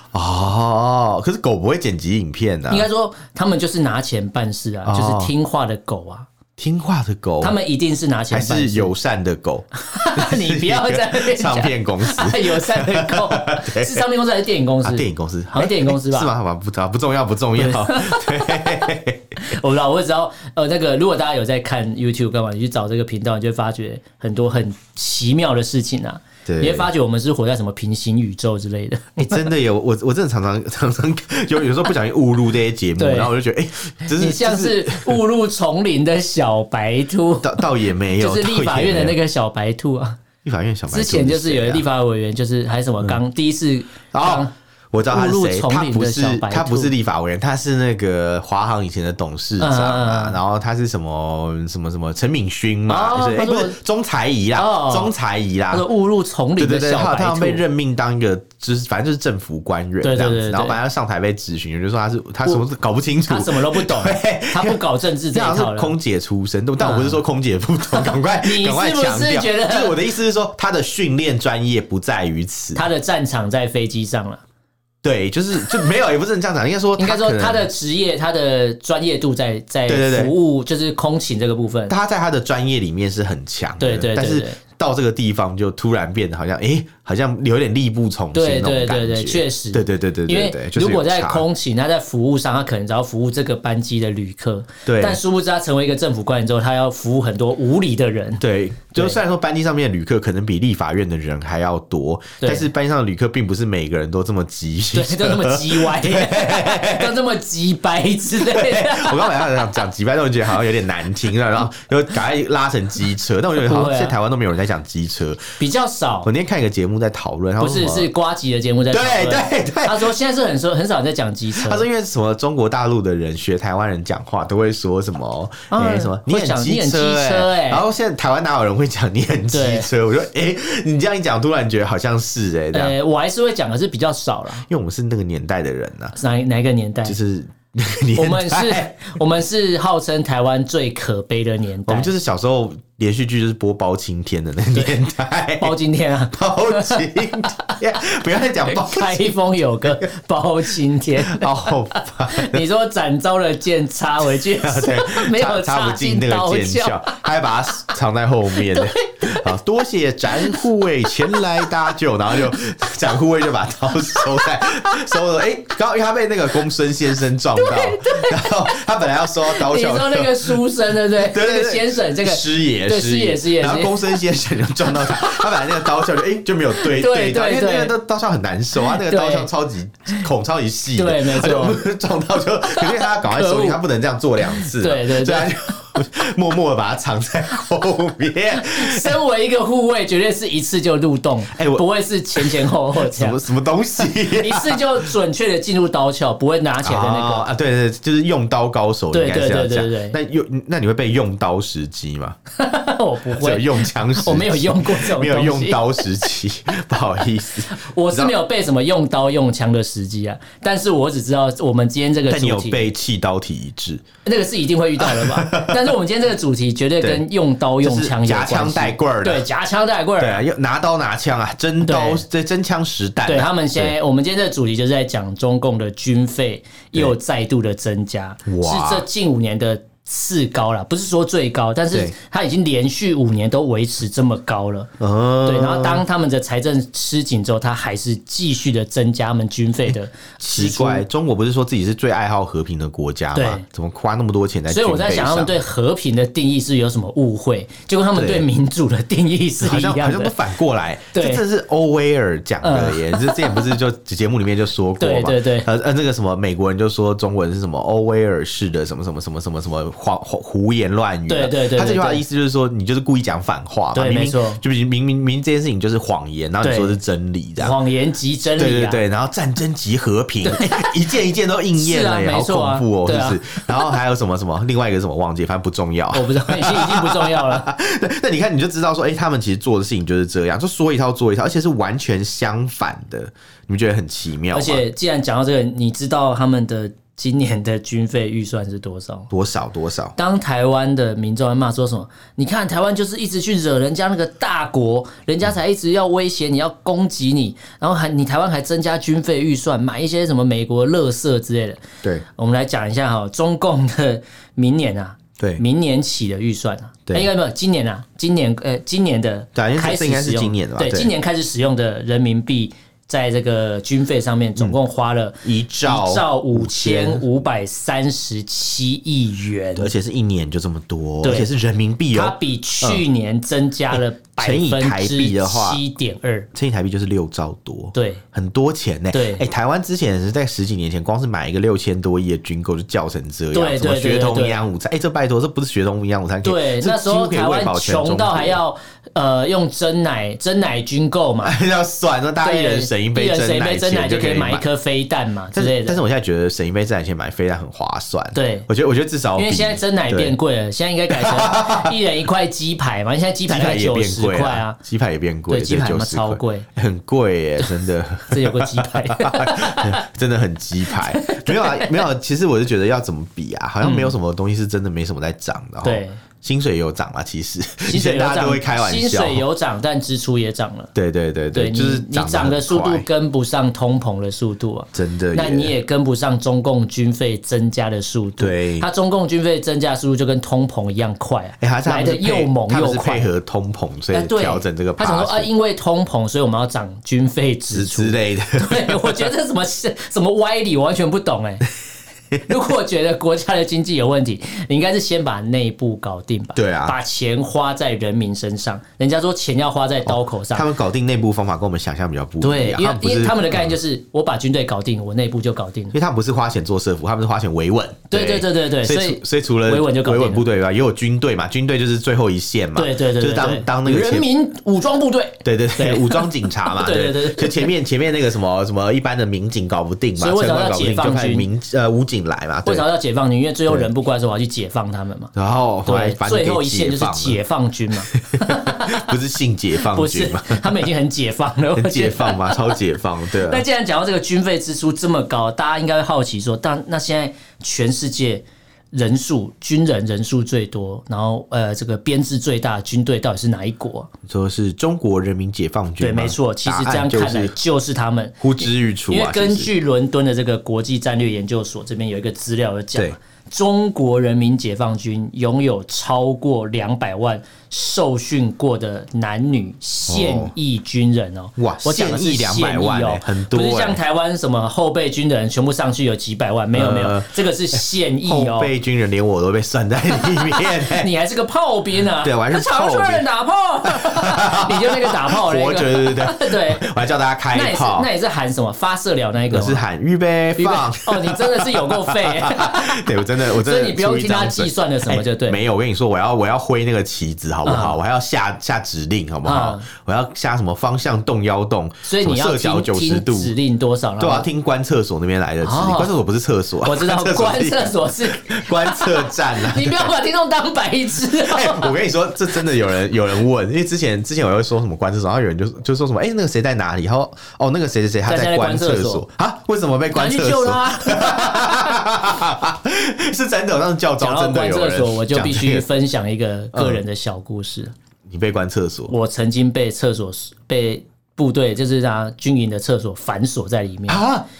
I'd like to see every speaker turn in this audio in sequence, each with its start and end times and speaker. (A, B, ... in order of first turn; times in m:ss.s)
0:00.1-0:02.9 A
0:02.7-0:06.3 B
0:04.8-0:05.3 A
0:06.6-0:07.6 A
0:07.4-0:08.9 B
0:08.3-0:14.0 A
0:09.8-0:16.3 B
0:14.8-0:19.3 A
0:17.6-0:29.4 B
0:26.4-0:26.9 A
0:29.2-0:35.2 A
0:33.0-0:33.3 B
0:34.0-0:37.6 B
0:37.4-0:39.2 A
0:38.2-0:40.2 B
0:40.4-0:41.8 A
0:40.9-0:44.5 B
0:44.1-0:55.9 A
0:45.1-0:46.9 B
0:49.6-0:50.4 B
0:52.9-0:53.8 B
0:54.5-0:55.1 B
0:55.7-0:57.6 B
0:56.6-1:12.8 A
1:00.0-1:00.8 B
1:03.3-1:05.9 B
1:06.8-1:07.2 B
1:07.9-1:10.0 B
1:12.7-1:14.4 B
1:15.0-1:17.7 A
1:17.0-1:21.9 B
1:19.9-1:20.3 A
1:21.9-1:31.4 A
1:23.8-1:24.6 B
1:28.3-1:38.4 B
1:34.8-1:35.2 A
1:38.4-1:47.2 A
1:42.4-1:42.6 B
1:44.9-1:49.8 B
1:48.3-1:55.6 A
1:53.6-1:54.1 B
1:55.6-1:56.3 B
1:56.2-1:58.1 A
1:57.6-2:01.8 B
1:58.9-2:00.1 A
2:01.5-2:12.9 A
2:05.7-2:07.8 B
2:09.5-2:09.9 B
2:12.7-2:14.7 B
2:14.7-2:16.1 A
2:16.1-2:17.2 B
2:17.0-2:19.0 A
2:18.1-2:22.1 B
2:21.9-2:25.8 A
2:24.7-2:27.8 B
2:26.3-2:30.0 A
2:28.6-2:37.2 B
2:31.2-2:32.6 A
2:34.6-3:09.2 A
2:38.6-2:39.4 B
2:40.3-2:40.6 B
2:44.4-2:44.7 B
2:47.6-2:48.8 B
2:49.5-2:54.0 B
2:54.9-2:55.9 B
2:56.8-2:57.9 B
2:58.8-2:59.5 B
3:00.9-3:01.8 B
3:02.7-3:03.8 B
3:04.5-3:05.5 B
3:08.5-3:13.4 B
3:11.5-3:15.1 A
3:14.0-3:17.5 B
3:16.8-3:22.4 A
3:19.1-3:20.2 B
3:22.6-3:26.3 B
3:23.3-3:28.3 A
3:27.7-3:32.9 B
3:32.3-3:34.0 A
3:34.2-3:40.4 B
3:35.0-3:35.9 A
3:37.8-3:39.4 A
3:40.2-3:43.9 A
3:41.8-3:42.2 B
3:43.2-3:54.9 B
3:48.5-3:49.1 A
3:55.0-3:56.0 A
3:55.4-4:01.0 B
4:00.4-4:05.6 A
4:03.3-4:03.6 B
4:04.7-4:10.4 B
4:08.1-4:08.5 A
4:09.6-4:27.8 A
4:11.1-4:11.4 B
4:12.6-4:13.6 B
4:15.0-4:15.7 B
4:21.3-4:22.2 B
4:23.9-4:24.6 B
4:26.6-4:27.0 B
4:27.6-4:29.0 B
4:28.6-4:44.8 A
4:30.4-4:30.9 B
4:31.8-4:33.9 B
4:36.1-4:37.7 B
4:44.5-4:49.3 B
4:49.3-4:50.1 A
4:50.2-5:01.8 B
5:02.3-5:19.9 B
5:09.5-5:11.1 A
5:15.4-5:17.2 A
5:19.8-5:23.0 A
5:21.2-5:21.5 B
5:22.1-5:26.5 B
5:23.9-5:25.8 A
5:26.5-5:38.6 A
5:27.9-5:28.2 B
5:29.1-5:29.4 B
5:33.5-5:34.6 B
5:36.4-5:41.6 B
5:41.4-5:44.6 A
5:42.4-5:46.0 B
5:45.5-5:50.4 A
5:48.3-5:48.7 B
5:49.4-5:54.8 B
5:51.1-5:52.0 A
5:53.5-6:09.4 A
5:55.5-5:56.6 B
5:58.3-6:00.0 B
6:00.9-6:02.0 B
6:03.8-6:04.1 B
6:05.8-6:06.2 B
6:07.8-6:10.9 B
6:10.9-6:13.0 A
6:11.5-6:23.3 B
6:14.9-6:15.7 A
6:18.4-6:18.9 A
6:21.6-6:25.5 A
6:24.1-6:31.7 B
6:27.7-6:29.3 A
6:32.4-6:40.7 B
6:36.6-6:37.0 A
6:40.0-6:43.8 A
6:42.4-6:46.0 B
6:45.9-6:54.3 A
6:48.1-6:50.5 B
6:52.8-6:57.7 B
6:55.4-7:02.8 A
7:00.2-7:01.5 B
7:02.6-7:05.3 B
7:05.3-7:07.4 A
7:05.8-7:09.1 B
7:08.1-7:10.8 A
7:09.8-7:12.8 B
7:11.7-7:13.6 A
7:13.4-7:24.1 B
7:24.3-7:27.6 A
7:26.0-7:48.7 B
7:28.4-7:29.7 A
7:40.1-7:40.5 A
7:41.6-7:44.0 A
7:46.7-7:51.1 A
7:50.3-7:56.9 B
7:52.2-7:53.2 A
7:53.8-7:58.1 A
7:57.5-7:59.8 B
7:59.5-8:13.5 A
8:00.6-8:05.6 B
8:07.6-8:08.0 B
8:09.4-8:09.9 B
8:12.0-8:14.5 B
8:14.2-8:20.1 A
8:15.6-8:16.1 B
8:16.8-8:21.9 B
8:21.3-8:35.9 A
8:28.3-8:29.2 B
8:30.1-8:32.0 B
8:34.2-8:37.9 B
8:36.7-8:37.0 A
8:38.3-8:39.1 A
8:39.1-8:44.2 B
8:44.1-8:44.4 A